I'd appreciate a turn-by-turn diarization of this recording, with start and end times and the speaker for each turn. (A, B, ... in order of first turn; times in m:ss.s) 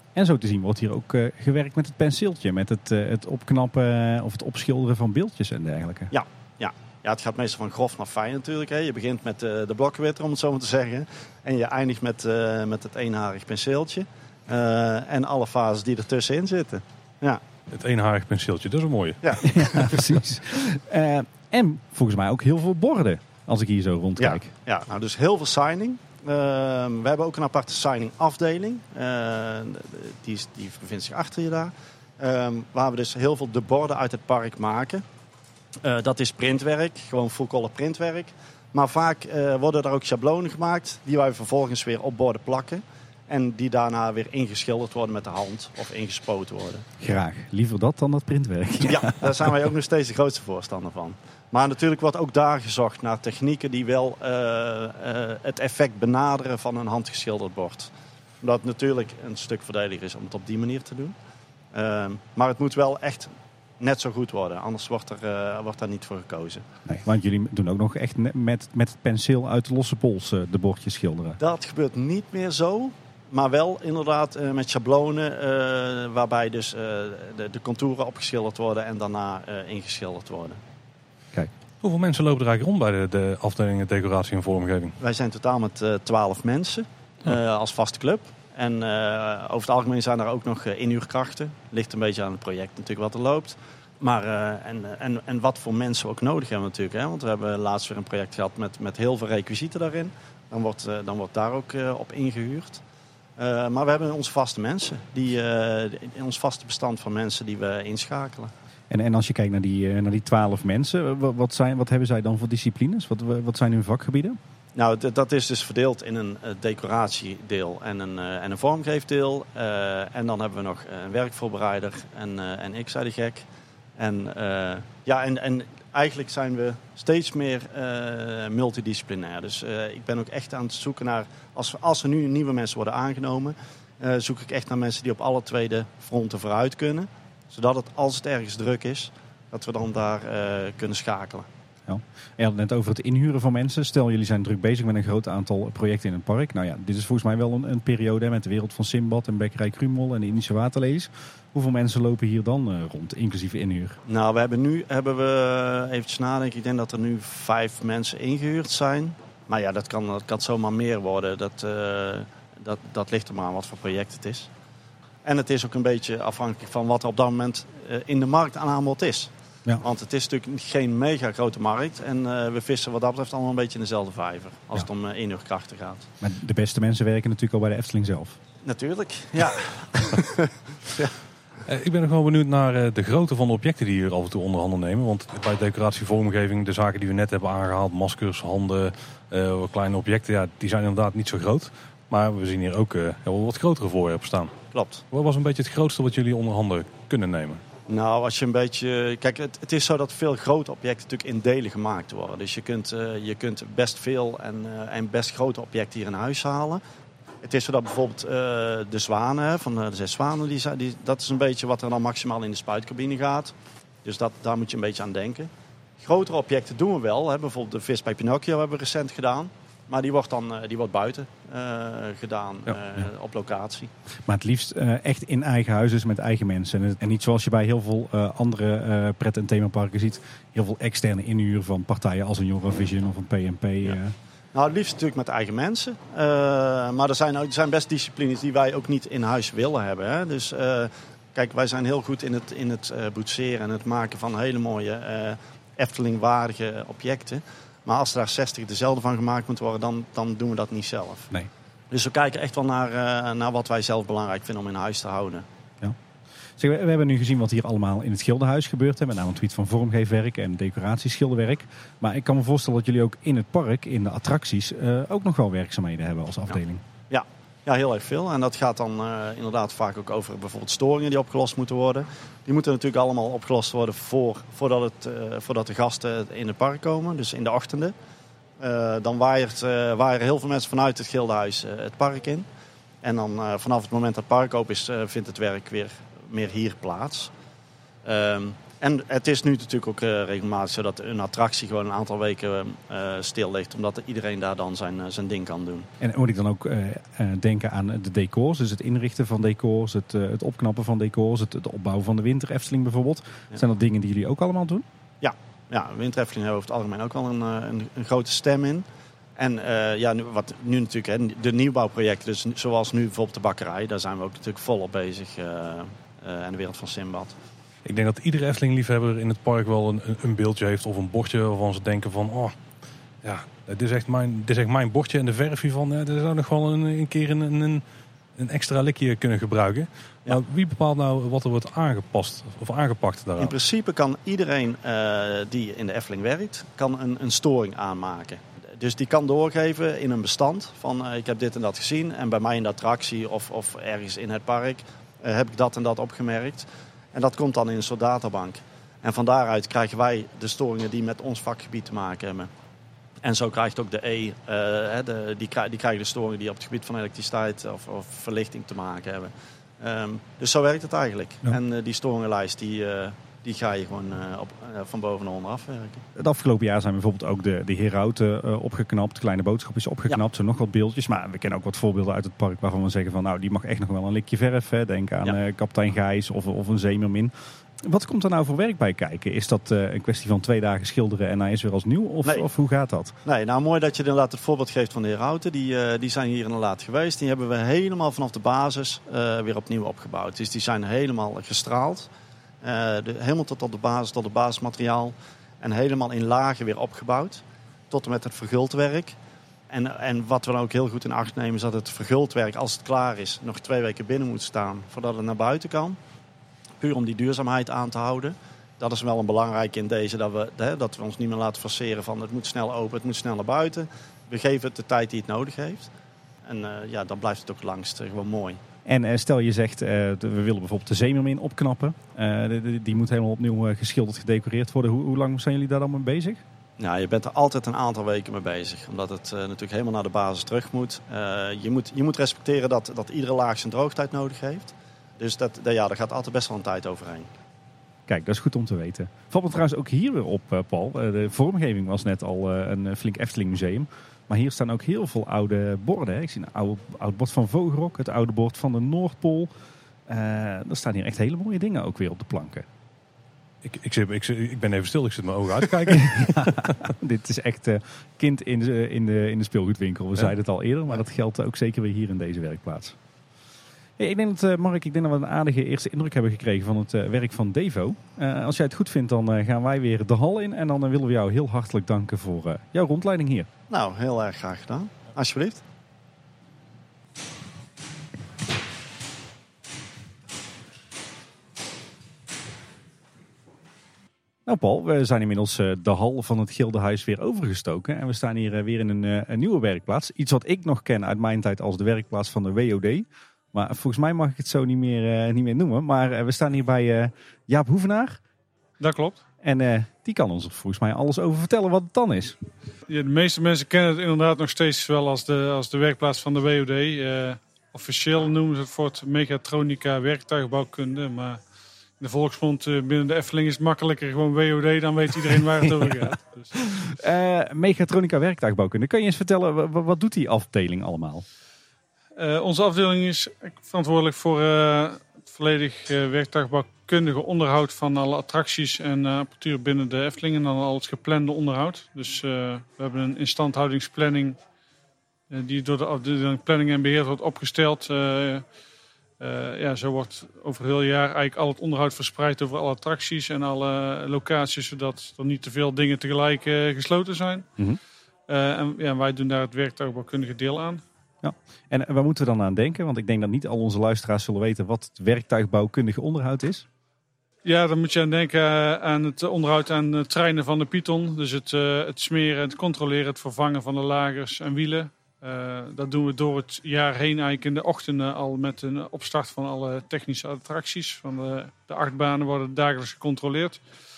0:00.1-0:06.1 A
0:06.1-0:17.4 B
0:17.7-0:19.2 C
0:19.2-0:20.1 B
0:19.4-0:24.5 A
0:24.2-0:35.0 B
0:35.8-0:46.8 B
0:47.0-0:49.5 A
0:48.8-0:57.9 B
0:58.4-1:01.1 B
1:01.7-1:06.6 B
1:06.9-1:11.4 A
1:11.4-1:20.6 B
1:21.8-1:25.0 C
1:25.0-1:42.8 B
1:43.4-1:48.5 B
1:48.9-1:54.4 A
1:54.7-2:03.4 B
2:04.0-2:21.5 B
2:21.8-2:34.0 A
2:34.0-2:44.5 B
2:45.2-2:56.1 B
2:56.2-2:58.4 A
2:58.6-3:01.1 B
3:01.7-3:14.5 C
3:14.7-3:15.0 B
3:15.1-3:17.6 C
3:17.9-3:26.8 B
3:27.4-3:43.9 B
3:44.2-3:54.1 A
3:54.5-4:11.3 B
4:11.9-4:15.4 B
4:16.6-4:26.8 A
4:27.1-4:37.9 B
4:38.6-4:42.5 B
4:43.0-4:47.3 B
4:48.0-4:55.9 B
4:56.0-5:04.8 A
5:05.2-5:08.8 B
5:09.4-5:17.3 B
5:17.8-5:22.6 C
5:23.2-5:27.8 C
5:28.4-5:33.6 C
5:33.4-5:52.5 B
5:53.2-6:06.0 B
6:06.2-6:23.1 A
6:23.2-6:32.1 B
6:32.6-6:39.2 B
6:39.7-6:46.0 B
6:46.8-6:55.9 B
6:56.4-6:58.6 B
6:58.8-7:06.4 A
7:06.8-7:17.3 B
7:18.1-7:29.5 A
7:30.1-7:32.7 A
7:33.6-7:36.8 C
7:35.8-7:43.0 A
7:44.0-7:53.5 A
7:53.7-7:55.6 B
8:04.4-8:18.2 A
8:18.8-8:19.2 D
8:19.4-8:22.4 A
8:22.9-8:31.4 D
8:32.0-8:36.5 D
8:36.7-8:41.2 A
8:42.2-8:54.4 D
8:55.3-8:58.4 D
8:59.2-9:07.5 D
9:08.3-9:10.8 D
9:11.2-9:16.6 A
9:17.4-9:33.6 D